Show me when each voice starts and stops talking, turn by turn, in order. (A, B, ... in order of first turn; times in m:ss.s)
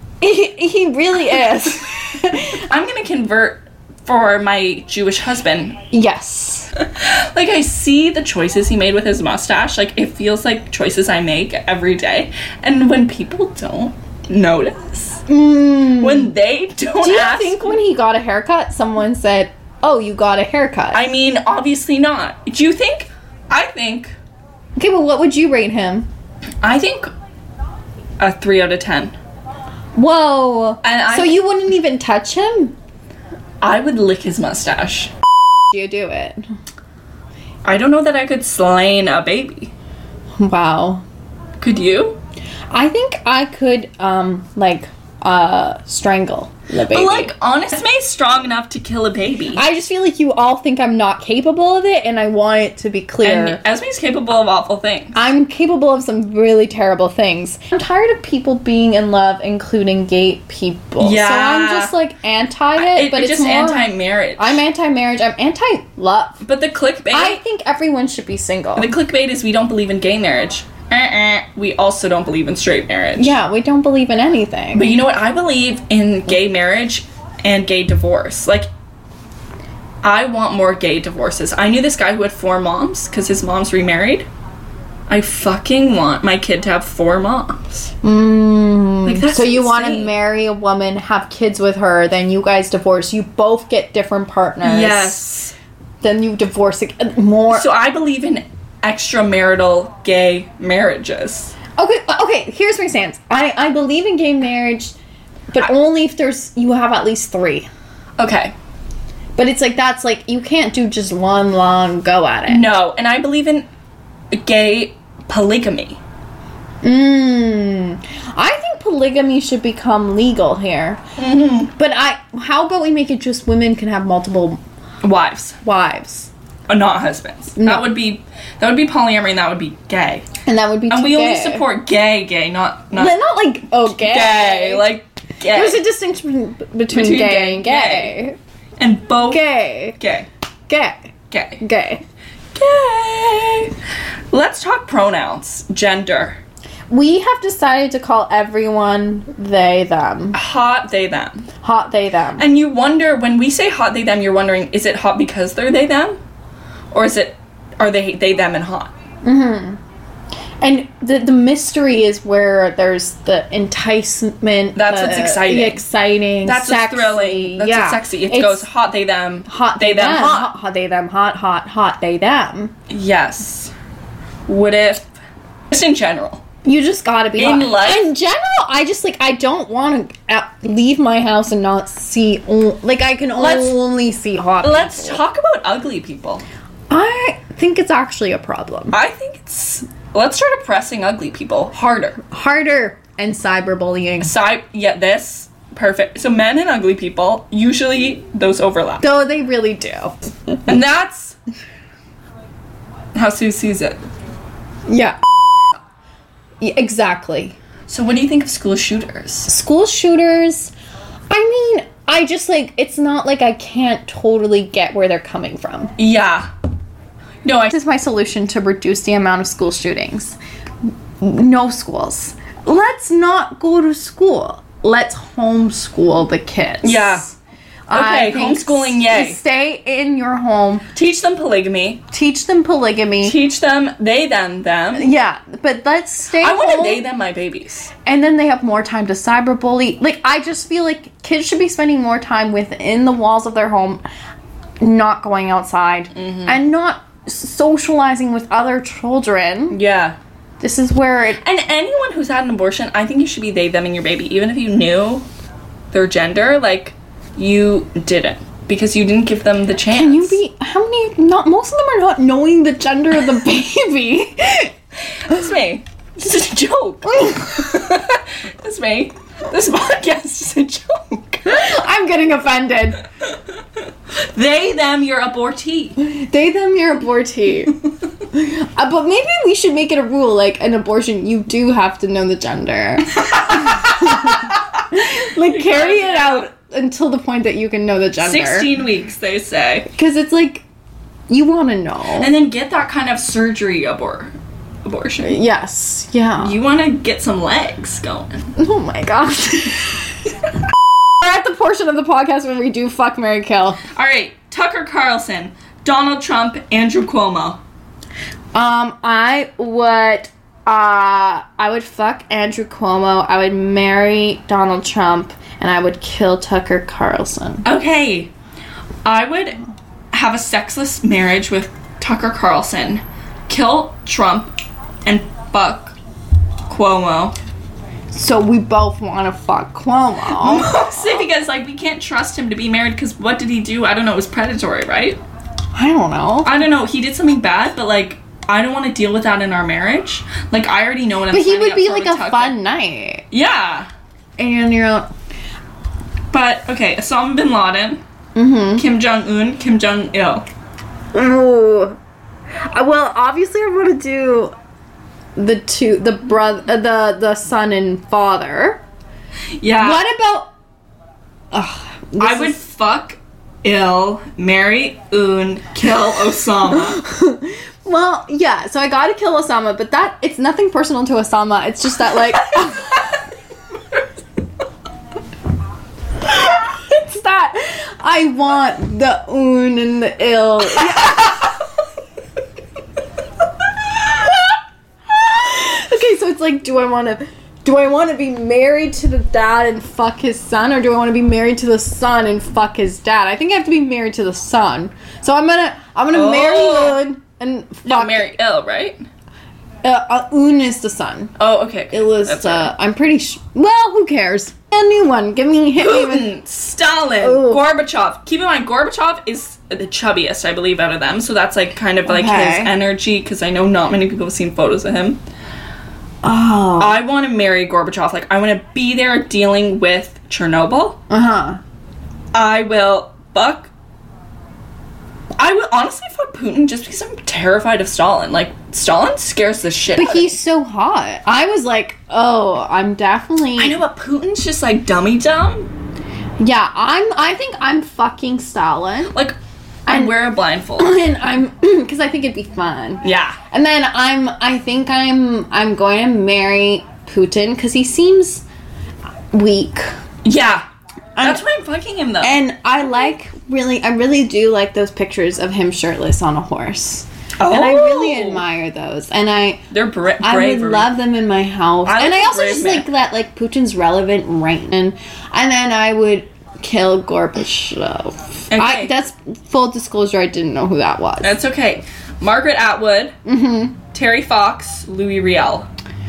0:00.2-0:02.6 A
0:02.6-0:05.8 B
0:05.9-0:06.7 A
0:06.8-0:15.2 B
0:15.3-0:16.3 A
0:15.8-0:17.8 B
0:17.0-0:21.0 A
0:20.9-0:24.1 B
0:24.8-0:26.1 A
0:26.6-0:27.1 B
0:28.2-0:29.2 B
0:29.9-0:32.8 A
0:30.8-0:31.4 B
0:33.6-0:35.1 B
0:35.7-0:36.4 A
0:37.6-0:39.7 B
0:40.4-0:41.0 A
0:41.6-0:42.2 B
0:42.7-0:47.3 A
0:46.9-0:49.6 B
0:49.5-0:53.6 A
0:53.2-0:55.2 B
0:55.1-1:06.4 A
1:01.0-1:01.9 B
1:02.8-1:04.6 B
1:06.4-1:07.4 B
1:07.1-1:08.9 A
1:08.8-1:13.4 B
1:13.2-1:15.0 A
1:14.7-1:18.7 B
1:20.0-1:24.3 B
1:25.1-1:27.9 B
1:28.0-1:35.2 A
1:29.0-1:30.1 B
1:34.6-1:35.5 B
1:36.0-1:37.7 A
1:37.5-1:41.5 B
1:41.8-1:45.0 A
1:45.5-1:47.7 A
1:48.2-1:48.5 B
1:49.4-1:52.6 A
1:52.5-1:53.7 B
1:54.3-1:56.0 B
1:56.8-2:01.0 A
2:01.2-2:01.7 B
2:01.8-2:04.6 A
2:05.0-2:05.6 B
2:05.6-2:06.3 A
2:06.7-2:10.3 B
2:07.6-2:07.9 A
2:10.4-2:11.6 A
2:10.9-2:13.1 B
2:12.9-2:14.9 A
2:13.8-2:15.8 B
2:15.5-2:18.4 A
2:16.9-2:18.1 B
2:18.8-2:19.4 B
2:19.3-2:20.0 A
2:20.0-2:20.3 B
2:20.7-2:21.0 A
2:21.3-2:21.6 B
2:21.6-2:22.0 A
2:22.5-2:23.7 B
2:24.3-2:26.4 B
2:26.9-2:30.4 A
2:30.3-2:31.5 B
2:31.6-2:32.4 A
2:32.4-2:36.2 B
2:36.9-2:38.9 B
2:39.2-2:39.8 A
2:40.6-2:48.6 A
2:44.7-2:45.8 B
2:46.4-2:50.5 B
2:49.4-2:52.7 A
2:52.9-2:53.7 B
2:54.5-2:55.1 B
2:55.7-2:56.4 B
2:56.6-3:05.2 A
2:57.4-2:58.1 B
3:03.4-3:03.8 B
3:04.6-3:06.4 B
3:06.9-3:08.9 A
3:08.9-3:12.2 B
3:12.2-3:14.3 A
3:14.2-3:19.0 B
3:19.0-3:20.8 A
3:20.7-3:21.4 B
3:23.1-3:24.0 B
3:24.9-3:25.2 A
3:26.6-3:27.6 A
3:27.9-3:29.5 B
3:29.5-3:30.7 A
3:31.3-3:35.9 A
3:36.0-3:36.5 B
3:37.4-3:37.7 B
3:37.7-3:40.4 A
3:41.2-3:47.3 A
3:46.8-3:47.3 B
3:47.9-3:50.9 A
3:47.9-3:49.4 B
3:50.9-3:52.0 B
3:52.1-3:53.4 A
3:53.2-3:55.1 B
3:54.9-3:57.1 A
3:56.3-3:57.9 B
3:58.0-4:04.0 A
4:04.8-4:09.8 A
4:06.1-4:06.6 B
4:09.7-4:10.2 B
4:10.6-4:11.4 A
4:11.4-4:15.3 B
4:15.9-4:20.4 B
4:19.9-4:24.7 A
4:25.1-4:31.7 B
4:27.1-4:27.8 A
4:31.4-4:33.0 A
4:34.2-4:36.0 B
4:36.0-4:37.8 A
4:38.3-4:48.7 A
4:43.2-4:44.9 B
4:45.4-4:46.5 B
4:48.2-4:49.9 B
4:49.9-4:50.6 A
4:51.3-4:52.3 A
4:52.2-4:54.3 B
4:54.8-4:55.4 B
4:55.2-4:56.6 A
4:56.4-4:58.5 B
4:58.6-5:00.4 A
5:01.2-5:03.8 A
5:03.9-5:07.6 B
5:08.5-5:17.6 A
5:17.6-5:18.3 B
5:19.0-5:19.6 B
5:20.1-5:24.5 B
5:25.0-5:26.0 B
5:26.7-5:27.3 B
5:28.1-5:31.2 A
5:30.3-5:35.2 B
5:35.7-5:36.5 A
5:36.4-5:42.6 B
5:41.3-5:43.2 A
5:43.3-5:43.9 B
5:44.4-5:45.1 A
5:46.3-5:48.0 B
5:48.3-5:48.9 A
5:48.8-5:50.4 B
5:51.1-5:52.0 A
5:52.7-5:54.5 A
5:55.4-5:58.8 A
5:59.6-6:00.0 B
5:59.8-6:00.5 A
6:01.5-6:02.6 A
6:02.2-6:07.0 B
6:06.7-6:13.1 A
6:16.2-6:21.5 A
6:23.9-6:24.5 A
6:25.1-6:38.3 A
6:36.1-6:37.0 B
6:37.8-6:39.0 B
6:39.8-6:41.4 A
6:41.4-6:42.7 B
6:41.9-6:46.3 A
6:45.8-6:55.2 B
6:47.2-6:47.6 A
6:52.1-6:52.7 A
6:56.2-6:57.0 A
6:56.8-7:01.0 B
7:01.1-7:01.6 A
7:02.3-7:03.7 B
7:05.4-7:10.3 B
7:09.9-7:13.8 A
7:13.6-7:15.7 B
7:16.4-7:19.2 A
7:19.1-7:21.0 B
7:19.9-7:20.2 A
7:20.8-7:28.4 A
7:23.0-7:23.4 B
7:29.3-7:29.9 A
7:30.2-7:30.6 B
7:31.2-7:31.4 A
7:31.2-7:32.4 B
7:32.2-7:39.7 A
7:37.4-7:38.4 B
7:39.7-7:40.9 B
7:40.2-7:51.4 A
7:41.8-7:42.9 B
7:48.5-7:48.9 B
7:51.2-7:53.2 B
7:53.2-7:53.8 A
7:53.9-7:55.7 B